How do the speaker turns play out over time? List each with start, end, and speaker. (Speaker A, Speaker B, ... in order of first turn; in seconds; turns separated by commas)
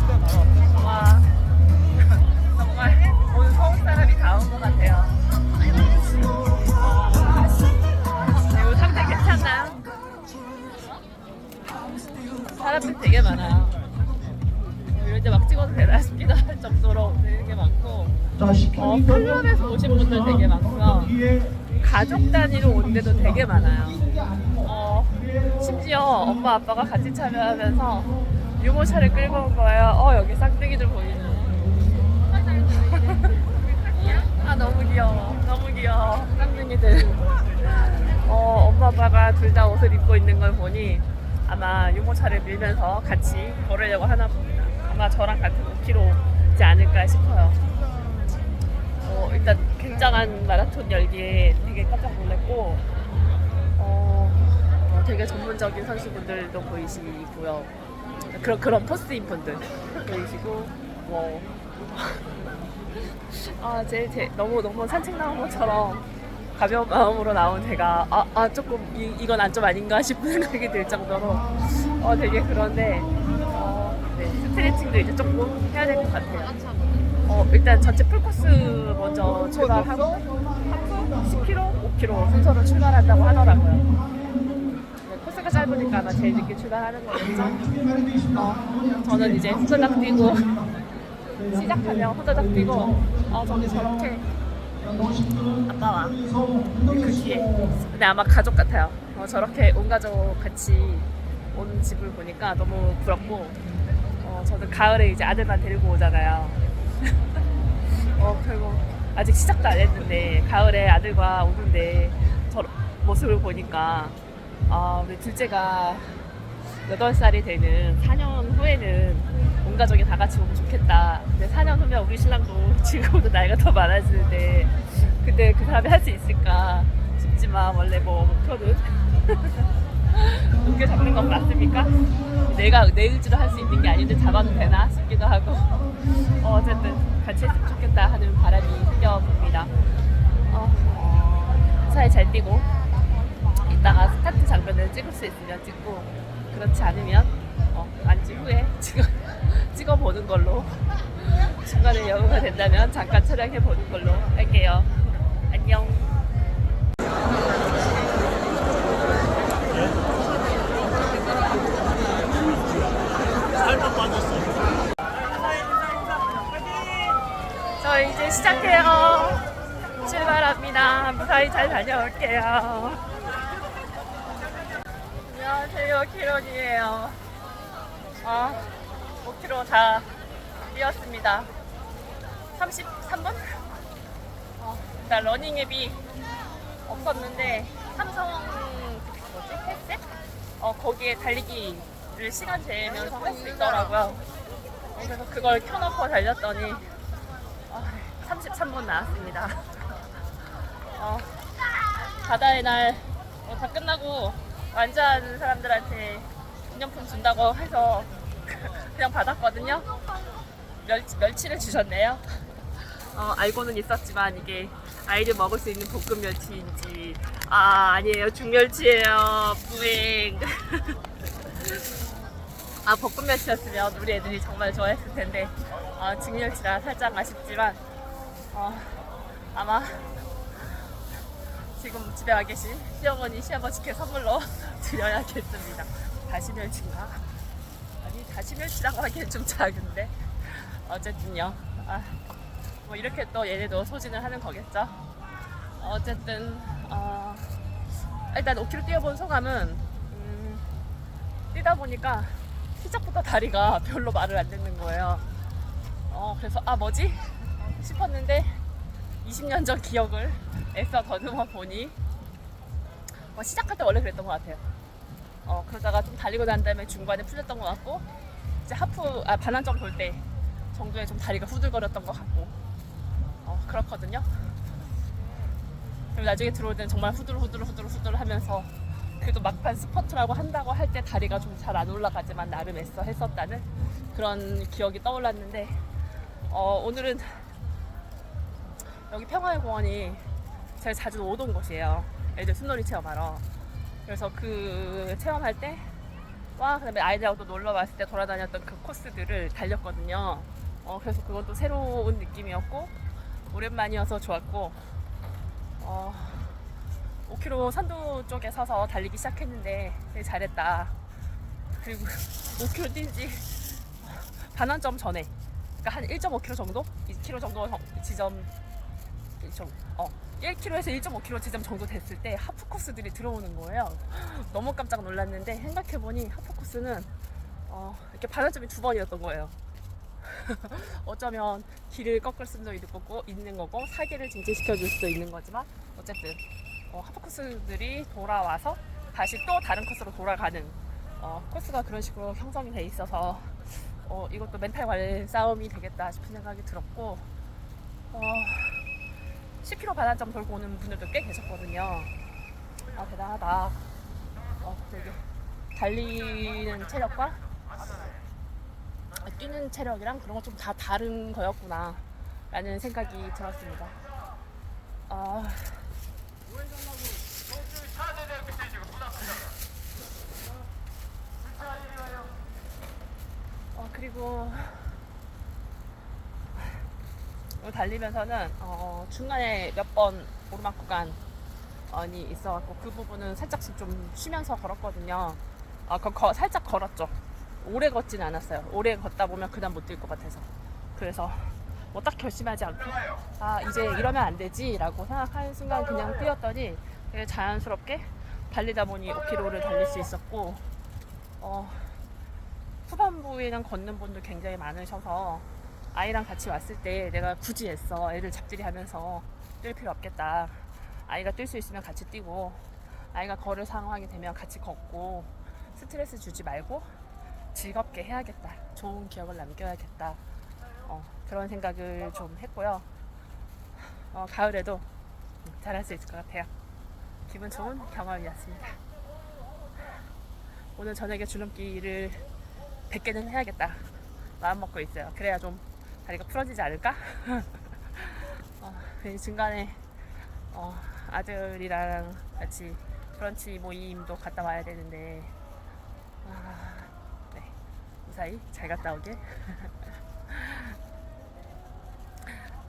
Speaker A: 0.6-1.4, Speaker A: 2.0-9.8, Speaker A: 12.4-13.8, Speaker A: 14.9-18.2, Speaker A: 18.7-21.2, Speaker A: 21.8-24.1, Speaker A: 24.6-47.6, Speaker A: 49.0-52.8, Speaker A: 53.8-57.7, Speaker A: 58.3-76.6, Speaker A: 77.3-84.0, Speaker A: 85.0-87.8, Speaker A: 88.3-90.7, Speaker A: 91.4-94.4, Speaker A: 95.7-96.2, Speaker A: 96.8-103.6, Speaker A: 104.2-107.4, Speaker A: 108.2-114.2, Speaker A: 114.7-139.7, Speaker A: 140.5-142.7, Speaker A: 143.6-156.1, Speaker A: 167.8-173.1, Speaker A: 175.2-177.2, Speaker A: 178.2-178.7, Speaker A: 179.2-180.1, Speaker A: 180.6-181.5, Speaker A: 182.5-183.6, Speaker A: 184.6-186.0, Speaker A: 186.9-190.1, Speaker A: 190.6-194.2, Speaker A: 194.9-196.9, Speaker A: 197.7-201.4, Speaker A: 202.1-209.9, Speaker A: 210.8-221.9, Speaker A: 222.8-227.8, Speaker A: 228.5-230.9, Speaker A: 231.7-237.3, Speaker A: 238.0-242.2, Speaker A: 242.8-245.0, Speaker A: 245.8-247.6, Speaker A: 248.3-250.7, Speaker A: 251.5-255.3, Speaker A: 256.1-258.6, Speaker A: 259.2-262.0, Speaker A: 263.3-264.6, Speaker A: 265.4-268.1, Speaker A: 268.6-272.6, Speaker A: 273.4-274.6, Speaker A: 276.1-285.9, Speaker A: 286.5-287.5, Speaker A: 289.1-293.5, Speaker A: 294.1-295.9, Speaker A: 296.6-304.9, Speaker A: 305.8-306.6, Speaker A: 307.3-311.0, Speaker A: 311.8-315.3, Speaker A: 315.8-318.5, Speaker A: 319.4-327.1, Speaker A: 327.7-329.6, Speaker A: 330.2-347.3, Speaker A: 348.1-348.9, Speaker A: 349.6-352.1, Speaker A: 352.9-353.8, Speaker A: 354.6-357.4, Speaker A: 359.2-364.0, Speaker A: 365.1-365.9, Speaker A: 373.7-375.0, Speaker A: 376.6-376.9, Speaker A: 377.6-381.2, Speaker A: 381.9-400.6, Speaker A: 401.4-402.0, Speaker A: 402.9-416.9, Speaker A: 417.5-420.2, Speaker A: 420.8-422.9, Speaker A: 424.1-424.9, Speaker A: 425.4-426.5, Speaker A: 427.3-428.8, Speaker A: 430.8-432.2, Speaker A: 432.9-433.9, Speaker A: 434.4-439.8, Speaker A: 440.5-445.3, Speaker A: 446.2-447.5, Speaker A: 448.0-450.8